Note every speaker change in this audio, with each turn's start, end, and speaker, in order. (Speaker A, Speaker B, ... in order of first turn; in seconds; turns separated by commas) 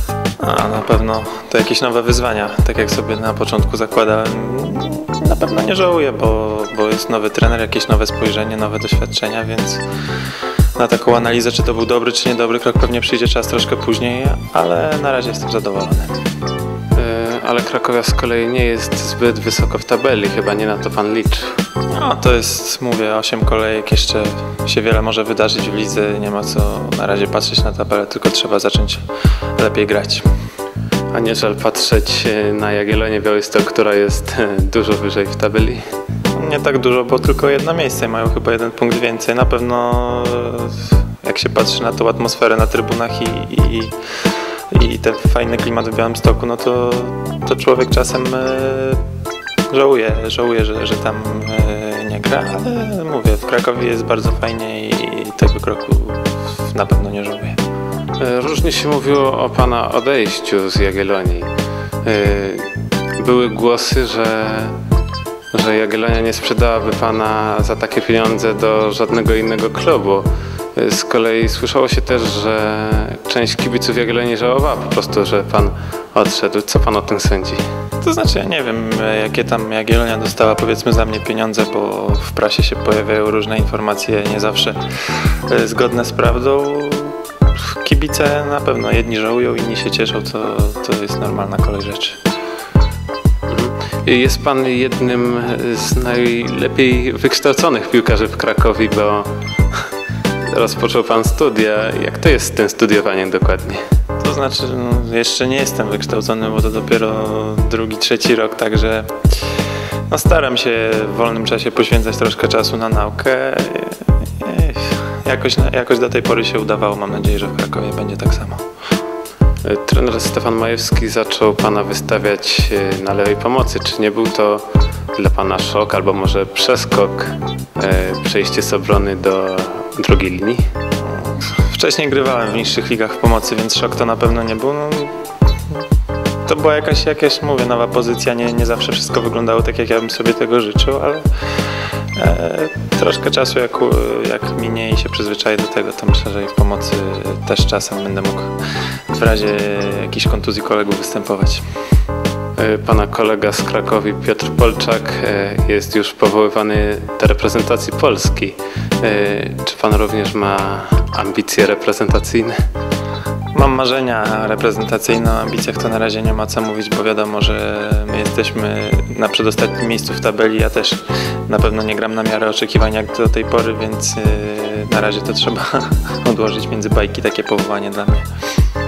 Speaker A: 0.4-9.8, Speaker A: 10.8-16.1, Speaker B: 16.9-21.6, Speaker A: 21.9-29.0, Speaker A: 29.6-30.2, Speaker B: 31.1-35.8, Speaker A: 36.3-43.9, Speaker A: 44.7-49.0, Speaker A: 49.7-57.6, Speaker B: 58.2-61.5, Speaker B: 62.0-64.7, Speaker B: 65.5-77.6, Speaker A: 78.0-84.8, Speaker A: 85.5-92.2, Speaker B: 93.5-99.3, Speaker B: 100.5-103.8, Speaker A: 104.2-109.1, Speaker A: 110.1-118.6, Speaker B: 119.6-130.6, Speaker A: 131.1-135.1, Speaker A: 136.4-141.2, Speaker A: 142.2-148.5, Speaker A: 149.1-151.6, Speaker B: 152.6-162.6, Speaker A: 163.5-178.2